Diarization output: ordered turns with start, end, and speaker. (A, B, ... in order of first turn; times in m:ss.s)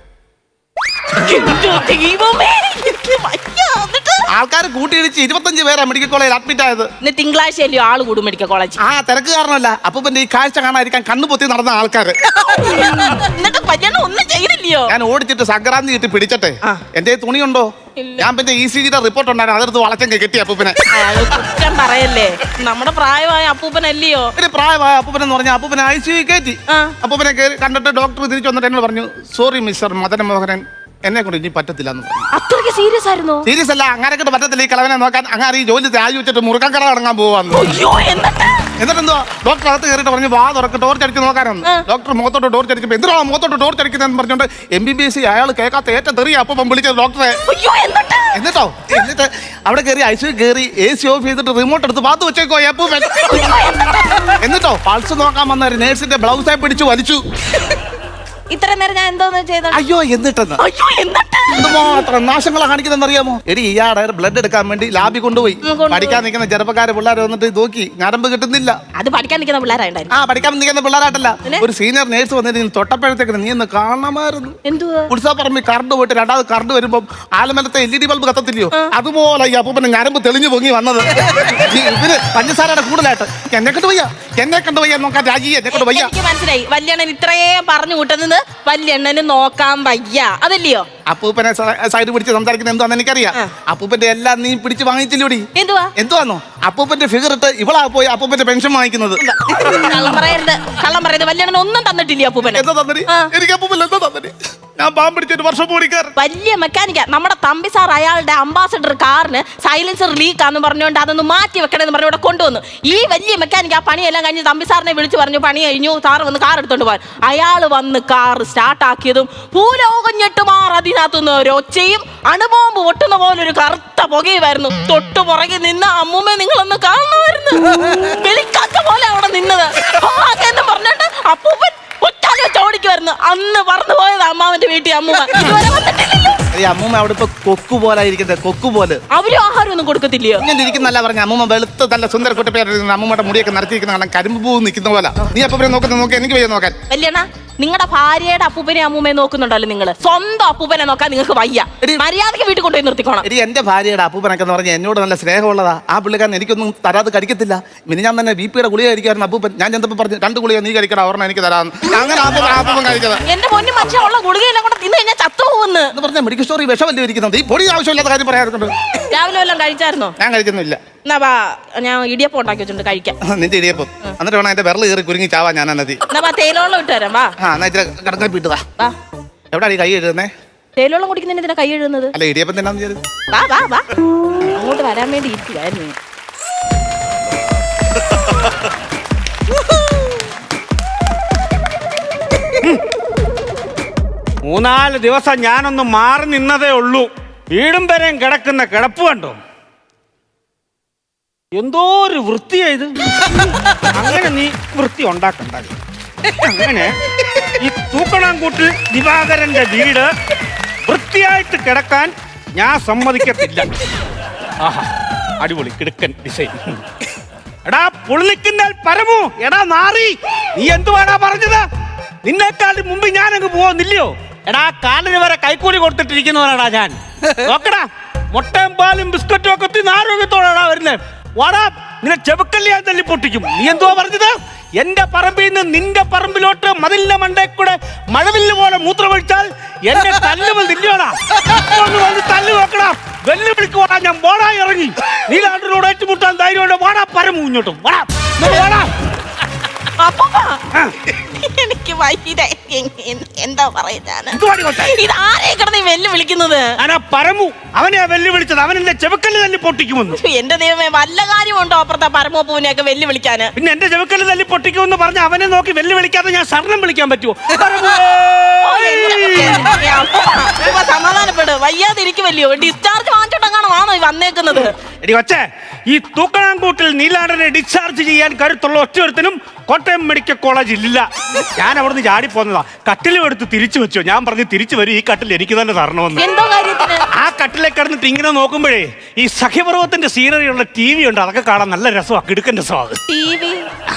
0:01.1-0:04.3 A
0:04.3-0:06.9 B
0:07.0-0:08.8 A
0:08.8-0:12.2 B
0:12.3-0:14.9 A
0:14.9-0:20.9 B
0:18.0-0:18.3 A
0:20.9-0:24.3 A
0:24.4-0:32.3 B
0:26.7-0:26.9 A
0:32.3-0:33.5 A
0:33.4-0:37.7 B
0:37.5-0:38.6 A
0:38.8-0:47.4 B
0:47.4-0:48.3 A
0:48.3-0:53.3 B
0:53.1-0:54.3 A
0:54.4-0:57.2 B
0:58.5-0:59.8 A
0:59.7-1:00.6 B
1:00.6-1:01.8 A
1:01.5-1:08.8 B
1:05.6-1:06.2 A
1:08.9-1:10.1 A
1:10.1-1:14.6 B
1:14.6-1:15.1 A
1:15.1-1:26.1 B
1:25.7-1:30.9 A
1:31.0-1:39.2 B
1:35.5-1:35.9 A
1:39.2-1:43.3 A
1:42.5-1:46.1 B
1:46.2-2:16.4 A
2:16.5-2:19.0 B
2:19.1-2:20.4 A
2:20.4-2:26.7 B
2:26.9-2:33.2 A
2:33.2-2:43.2 B
2:43.2-2:45.9 A
2:45.9-2:48.7 B
2:49.0-2:50.1 A
2:50.2-2:50.8 B
2:51.0-2:53.2 A
2:53.2-2:56.0 B
2:56.1-2:57.3 A
2:57.4-2:58.6 B
2:59.5-3:00.3 B
3:00.8-3:02.1 A
3:02.1-3:03.0 B
3:03.3-3:03.9 A
3:04.5-3:05.9 A
3:14.4-3:19.4 C
3:21.5-3:22.9 C
3:23.9-3:27.0 C
3:27.6-3:30.1 C
3:30.8-3:33.7 C
3:34.6-3:34.9 C
3:35.4-3:36.8 C
3:37.6-3:41.6 C
3:42.2-4:08.9 C
4:10.0-4:10.6 A
4:11.1-4:16.8 A
4:14.3-4:14.9 C
4:16.8-4:20.2 C
4:20.1-4:23.5 A
4:23.6-4:29.8 C
4:28.6-4:34.7 A
4:34.6-4:46.2 C
4:46.2-4:47.0 A
4:47.1-4:53.0 C
4:53.1-4:53.7 A